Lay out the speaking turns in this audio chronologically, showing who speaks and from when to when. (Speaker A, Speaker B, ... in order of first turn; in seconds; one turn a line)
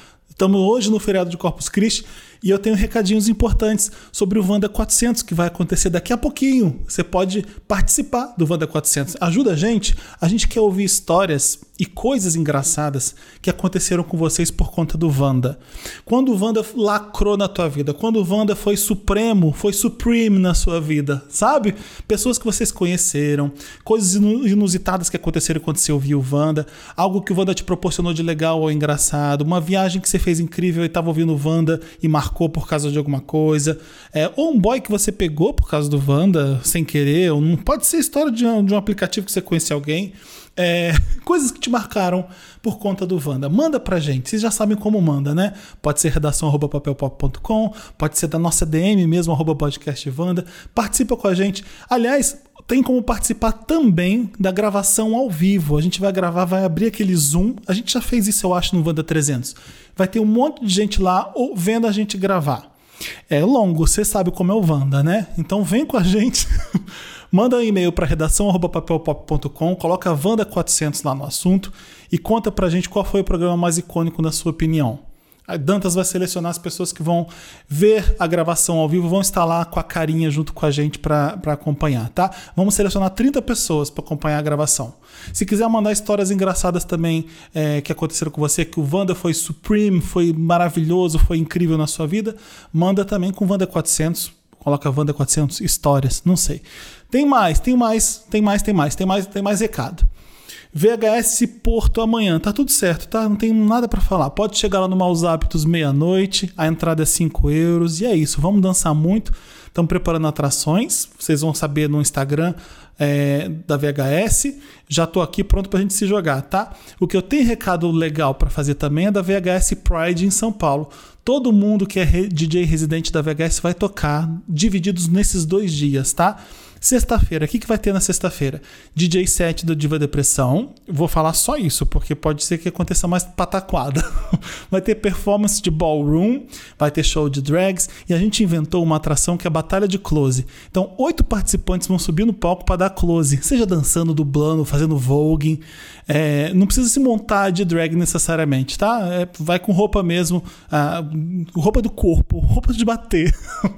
Speaker A: 0.4-62.7
Speaker A: 63.3-66.5
Speaker A: 67.3-100.1
Speaker A: 100.7-134.1
Speaker A: 134.7-153.3